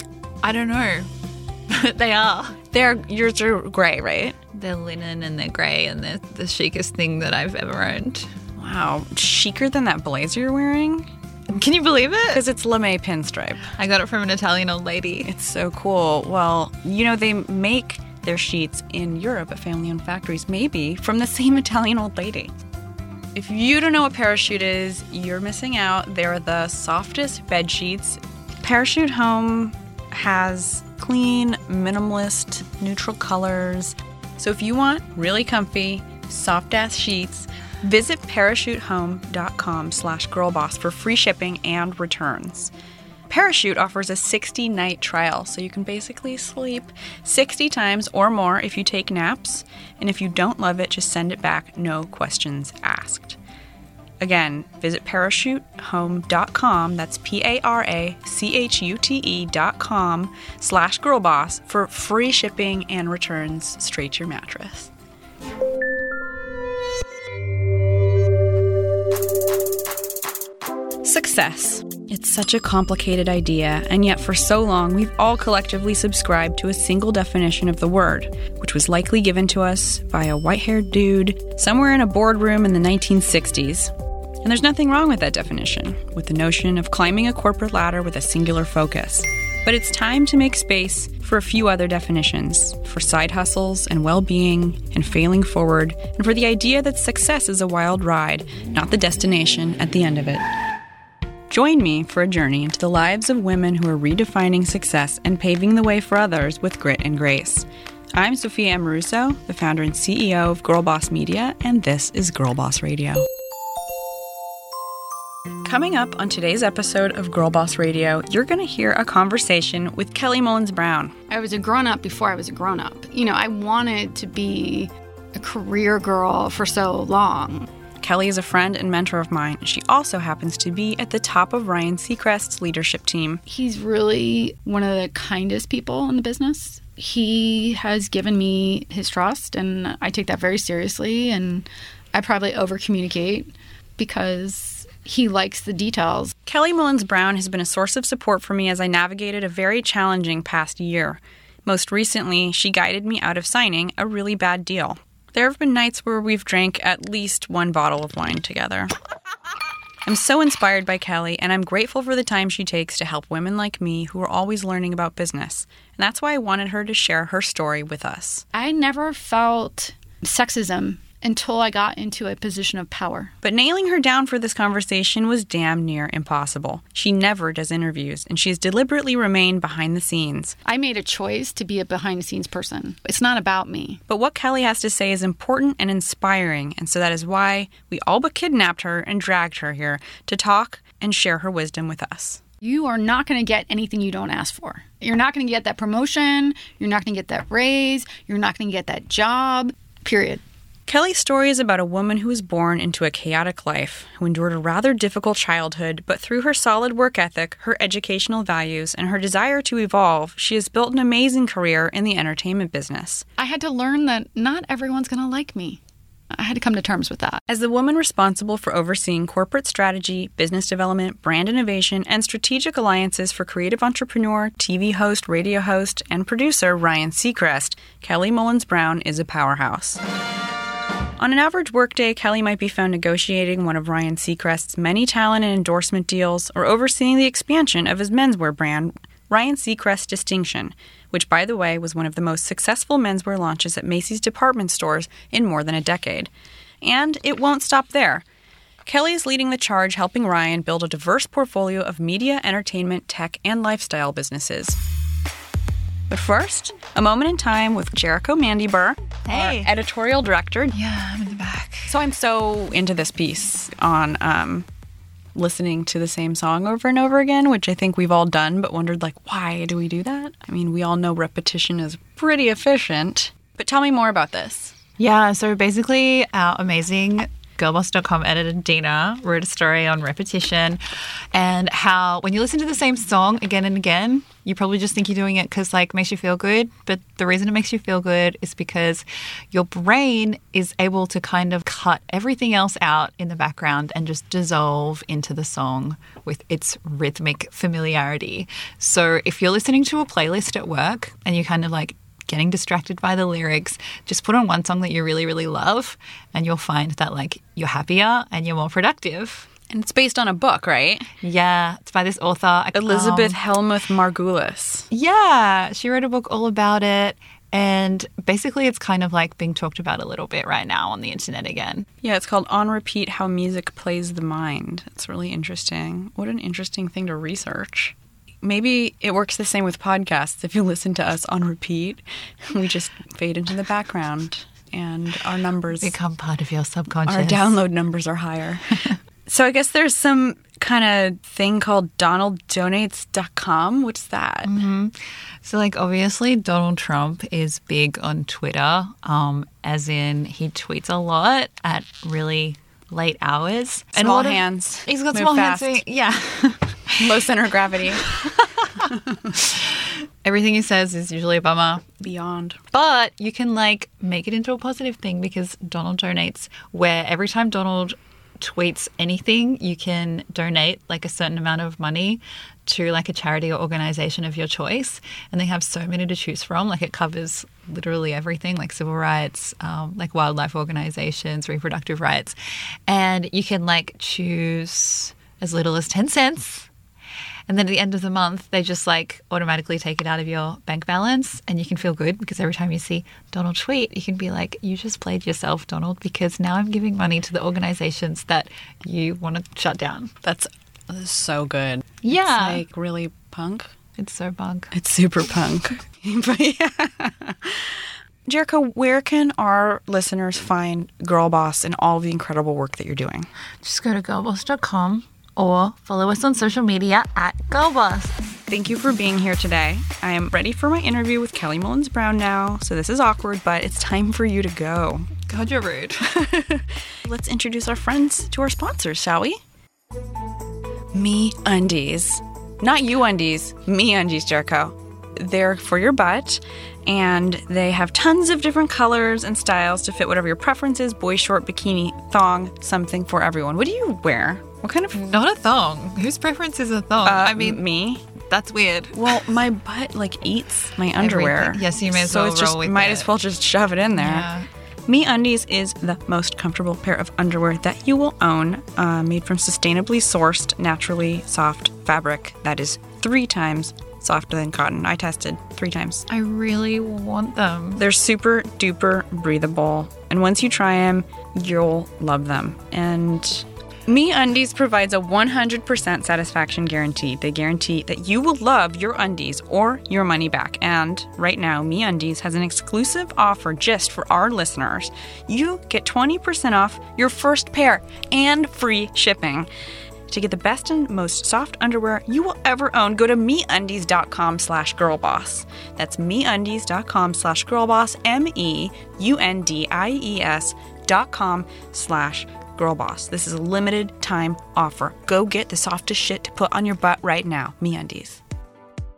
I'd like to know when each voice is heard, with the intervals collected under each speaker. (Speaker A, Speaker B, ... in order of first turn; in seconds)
Speaker A: 0.4-1.1, 1.7-2.6, 4.5-8.3, 11.5-12.4, 13.7-15.3, 259.3-259.7, 260.7-261.9, 275.0-280.8, 281.3-309.5, 311.2-313.4, 314.9-321.9, 335.8-337.6, 344.4-357.1, 358.2-361.9, 362.7-386.7, 387.5-400.1, 402.0-402.6, 404.0-404.7, 413.6-418.2, 425.3-426.1, 444.9-447.6, 448.1-449.3, 451.0-453.1, 454.0-454.5, 466.1-467.8
Speaker B: 2.7-4.4, 8.6-11.1, 12.3-13.7, 15.2-22.5, 23.4-42.7, 43.3-53.4, 54.2-64.9, 71.0-83.9, 84.4-100.4, 101.5-113.2, 115.6-121.1, 128.0-133.4, 146.5-158.9, 160.1-168.4, 173.4-180.6, 184.1-192.4, 200.9-213.2, 217.5-230.0, 231.2-246.3, 246.8-248.2, 248.9-254.8, 256.1-260.7, 261.9-264.7, 265.4-274.8, 309.7-311.1, 312.7-314.9, 322.0-335.9, 337.1-344.5, 354.0-355.8, 356.9-358.2, 362.0-362.6, 400.2-403.7, 404.7-413.3, 418.5-425.1, 426.1-429.4, 430.9-445.0, 447.0-448.1, 448.9-454.3, 454.9-466.1, 467.8-489.5, 490.1-508.2
Speaker C: 121.3-127.7, 133.5-146.3, 168.5-173.3, 180.7-184.0, 192.6-200.4, 213.4-215.8, 216.3-217.4